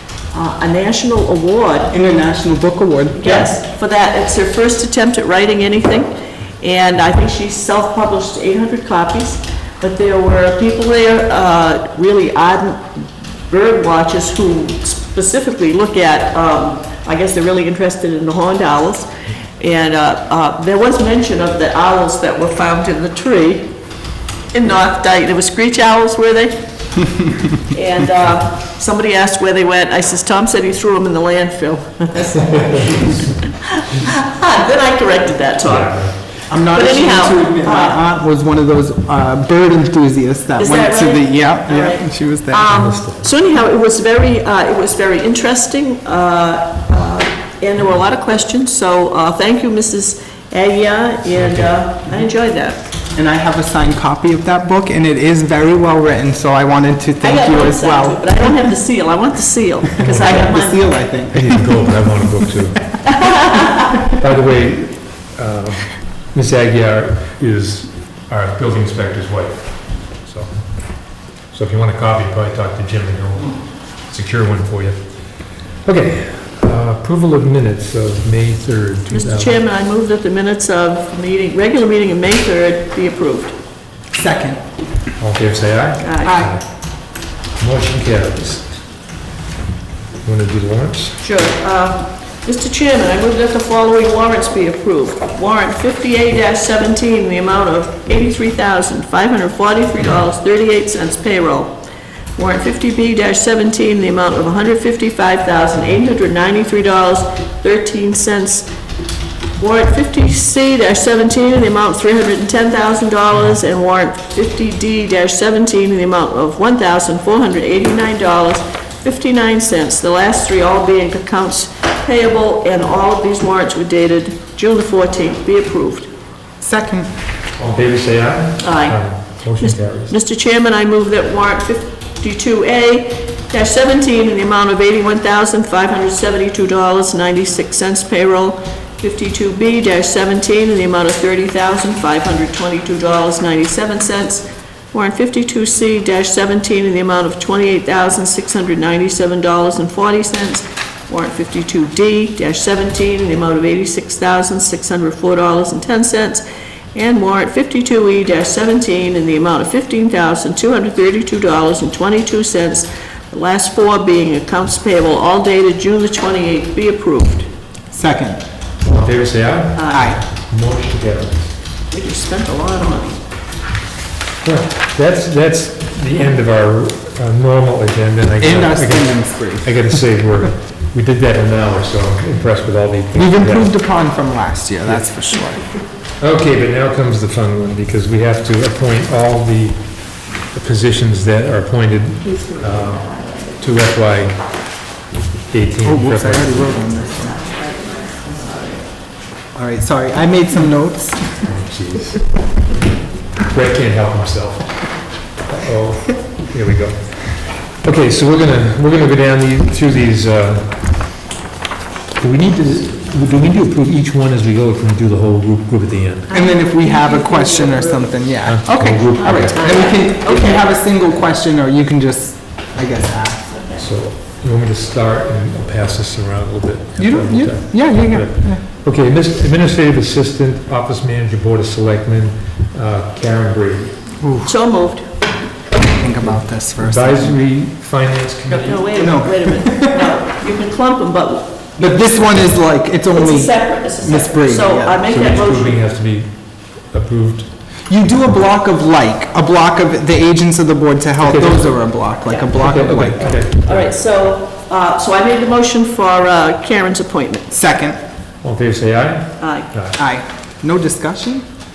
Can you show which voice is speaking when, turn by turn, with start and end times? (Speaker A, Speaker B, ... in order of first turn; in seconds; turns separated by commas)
Speaker A: 0.3-1.9, Speaker B: 1.9-3.5, Speaker A: 3.1-23.8, Speaker A: 24.5-38.0, Speaker C: 35.6-36.3, Speaker B: 36.5-42.7, Speaker A: 40.6-52.8, Speaker C: 42.7-43.3, Speaker C: 51.3-51.8, Speaker B: 53.1-58.6, Speaker A: 57.2-60.9, Speaker C: 60.0-60.5, Speaker B: 60.0-61.9, Speaker C: 61.3-75.1, Speaker A: 63.2-63.7, Speaker C: 75.8-79.6, Speaker A: 79.1-83.5, Speaker B: 84.1-84.6, Speaker C: 85.2-86.8, Speaker A: 86.0-86.3, Speaker B: 86.2-86.5, Speaker C: 87.6-88.8, Speaker C: 90.2-91.2, Speaker A: 91.2-101.8, Speaker A: 102.4-108.7, Speaker A: 109.6-126.1, Speaker B: 126.6-127.1, Speaker C: 127.5-130.1, Speaker A: 128.6-156.4, Speaker A: 156.9-167.5, Speaker B: 167.9-168.4, Speaker C: 168.8-171.6, Speaker A: 169.8-170.1, Speaker B: 169.9-170.2, Speaker A: 171.9-173.2, Speaker C: 174.4-183.7, Speaker B: 178.4-180.0, Speaker B: 183.1-185.6, Speaker C: 186.2-194.8, Speaker C: 195.5-196.8, Speaker B: 195.8-197.4, Speaker A: 197.4-198.8, Speaker B: 199.5-201.5, Speaker C: 201.4-202.6, Speaker C: 203.4-211.1, Speaker C: 212.2-216.3, Speaker A: 216.3-218.2, Speaker B: 216.3-223.4, Speaker C: 218.4-219.8, Speaker A: 219.2-220.7, Speaker A: 223.5-223.8, Speaker C: 223.8-234.0, Speaker B: 227.0-228.6, Speaker B: 234.2-234.5, Speaker A: 234.4-235.1, Speaker B: 235.8-237.3, Speaker C: 236.8-239.3, Speaker A: 238.5-241.6, Speaker B: 239.0-240.1, Speaker B: 241.8-245.0, Speaker A: 243.1-245.8, Speaker C: 245.1-247.7, Speaker B: 247.9-253.4, Speaker C: 251.2-253.9, Speaker A: 252.2-252.5, Speaker A: 253.2-257.5, Speaker B: 257.5-258.0, Speaker C: 258.4-260.0, Speaker A: 259.4-259.7, Speaker B: 260.0-261.4